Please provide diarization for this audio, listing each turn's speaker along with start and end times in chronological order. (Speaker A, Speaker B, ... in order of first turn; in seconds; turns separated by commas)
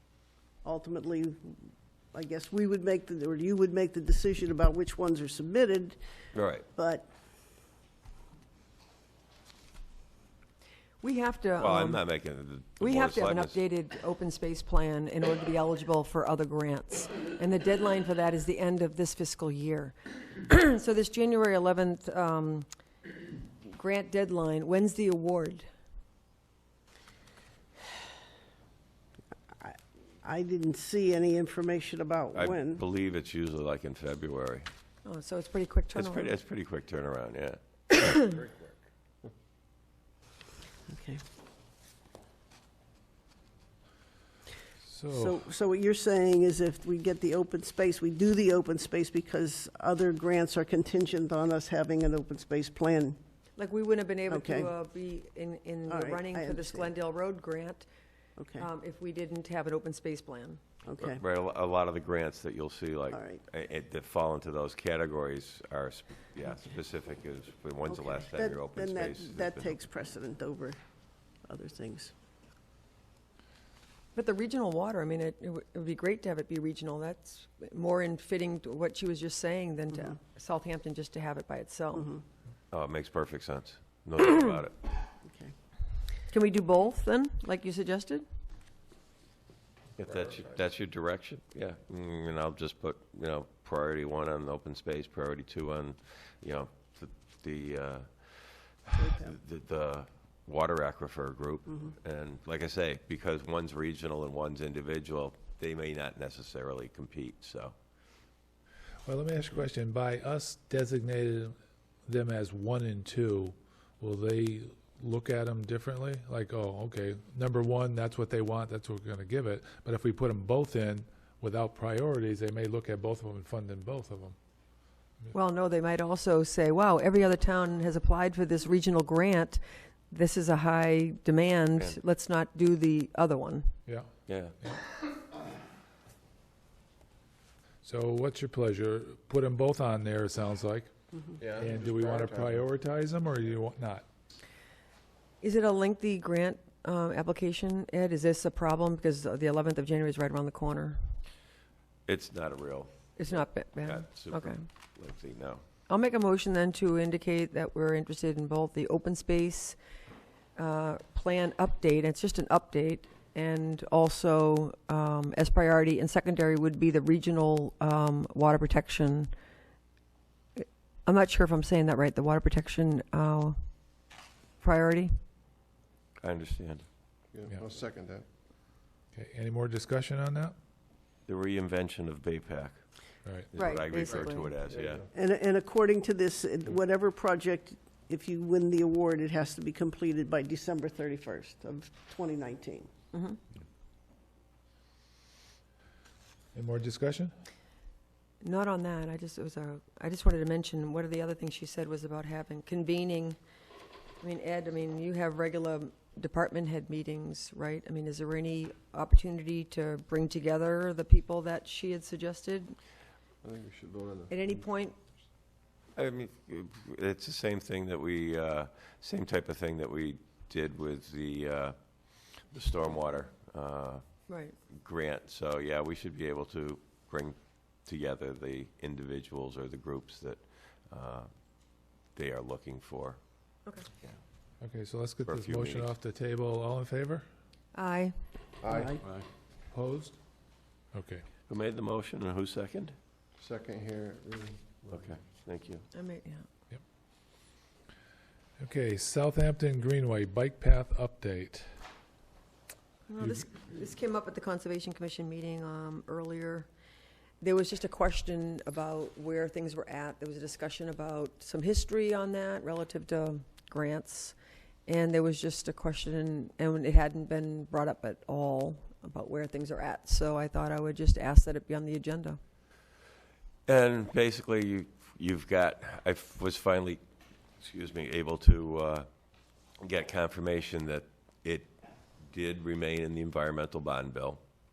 Speaker A: 0.6-1.6, Speaker A: 2.1-6.0, Speaker B: 6.3-6.7, Speaker A: 6.7-7.1, Speaker C: 11.0-12.0, Speaker B: 11.6-13.6, Speaker C: 12.8-22.7, Speaker C: 23.6-25.6, Speaker A: 29.6-32.8, Speaker B: 32.3-34.7, Speaker C: 35.0-36.3, Speaker B: 35.9-38.2, Speaker A: 40.9-41.2, Speaker D: 44.8-45.4, Speaker A: 45.1-53.2, Speaker C: 53.6-57.9, Speaker A: 54.3-54.7, Speaker A: 55.9-56.9, Speaker A: 58.4-58.6, Speaker C: 58.5-60.6, Speaker A: 60.9-61.2, Speaker B: 61.0-69.8, Speaker A: 63.1-63.4, Speaker A: 67.9-70.8, Speaker A: 71.5-72.1, Speaker C: 74.1-82.1, Speaker A: 81.9-82.2, Speaker B: 82.7-85.1, Speaker A: 85.2-85.5, Speaker C: 86.3-88.2, Speaker B: 90.0-107.7, Speaker A: 98.9-99.4, Speaker D: 109.0-111.5, Speaker D: 112.0-124.3, Speaker C: 125.3-133.7, Speaker B: 134.3-134.6, Speaker D: 137.8-140.9, Speaker E: 141.4-142.6, Speaker D: 141.6-144.1, Speaker C: 145.4-151.1, Speaker B: 152.1-155.6, Speaker C: 153.2-154.6, Speaker C: 155.9-159.8, Speaker C: 160.6-169.3, Speaker C: 170.6-173.6, Speaker C: 174.6-175.1, Speaker B: 176.2-176.8, Speaker E: 177.3-178.2, Speaker D: 179.1-180.5, Speaker B: 181.3-182.8, Speaker B: 183.5-185.1, Speaker C: 183.6-184.6, Speaker E: 184.7-185.0, Speaker A: 185.1-192.9, Speaker C: 193.1-193.4, Speaker D: 196.5-197.3, Speaker C: 198.4-203.4, Speaker C: 204.2-212.8, Speaker E: 213.4-214.5, Speaker C: 214.3-214.9, Speaker B: 215.9-233.2, Speaker C: 224.3-224.5, Speaker D: 234.6-237.2, Speaker B: 235.2-235.9, Speaker C: 237.7-238.2, Speaker E: 238.6-239.3, Speaker A: 238.7-239.0, Speaker D: 239.7-240.2, Speaker D: 240.9-241.2, Speaker B: 241.5-242.9, Speaker E: 243.4-245.1, Speaker B: 244.9-245.8, Speaker C: 245.9-246.4, Speaker D: 248.6-251.7, Speaker C: 253.1-256.7, Speaker D: 253.2-253.4, Speaker C: 257.4-264.4, Speaker C: 264.9-272.4, Speaker B: 273.7-277.0, Speaker B: 277.6-279.1, Speaker B: 279.7-284.4